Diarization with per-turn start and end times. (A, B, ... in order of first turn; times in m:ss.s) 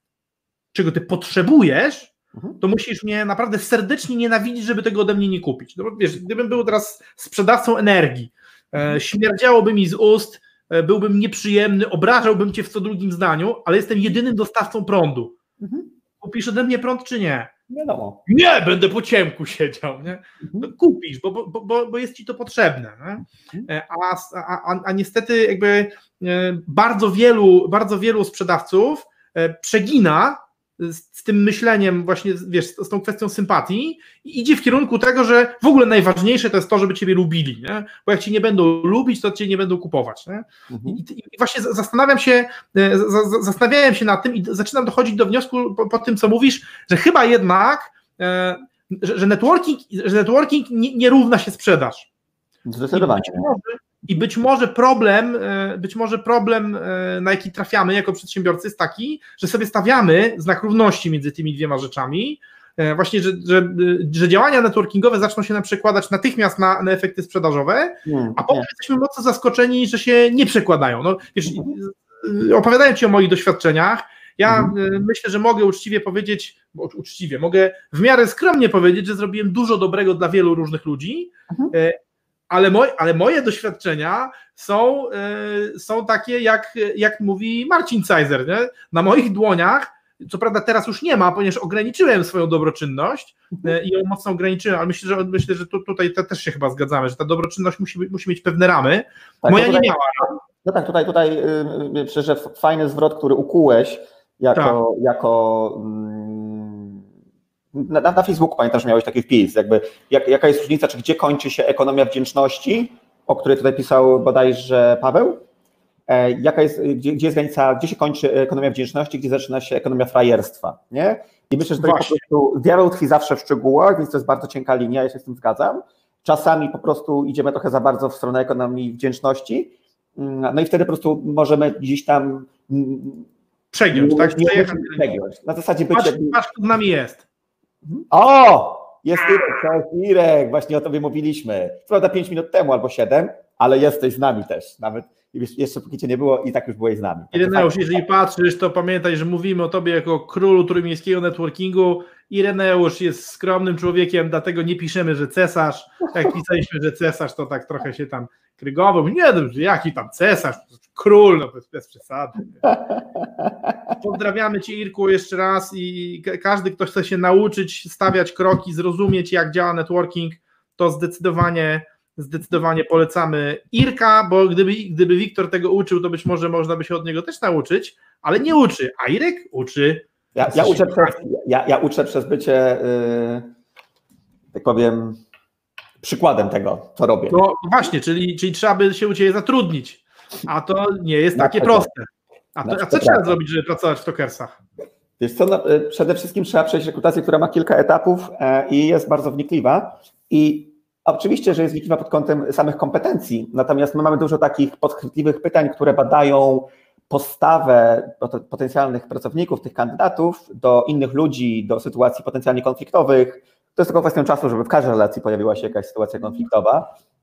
0:00.7-0:15.4 A
0:15.6-0:15.9 B
0:16.2-0:17.5 A
0:17.7-0:18.2 B
0:18.3-0:52.1 A
0:20.4-0:20.7 B
0:40.7-0:41.0 B
0:52.6-0:53.5 B
0:52.9-1:22.0 A
1:08.0-1:08.7 B
1:11.5-1:11.7 B
1:14.4-1:14.7 B
1:22.5-1:40.4 A
1:39.4-1:47.0 B
1:44.5-1:44.8 A
1:47.7-1:55.4 B
1:56.1-2:13.3 B
2:01.8-2:02.2 A
2:13.7-2:15.0 A
2:13.9-2:16.4 B
2:15.9-2:17.2 A
2:17.8-2:28.0 B
2:27.3-2:42.7 A
2:43.2-2:43.5 B
2:44.0-3:01.1 A
3:00.4-3:03.5 B
3:04.5-3:05.2 B
3:06.0-3:07.4 B
3:07.3-3:14.6 A
3:11.3-3:11.9 B
3:12.6-3:13.4 B
3:15.2-3:36.9 B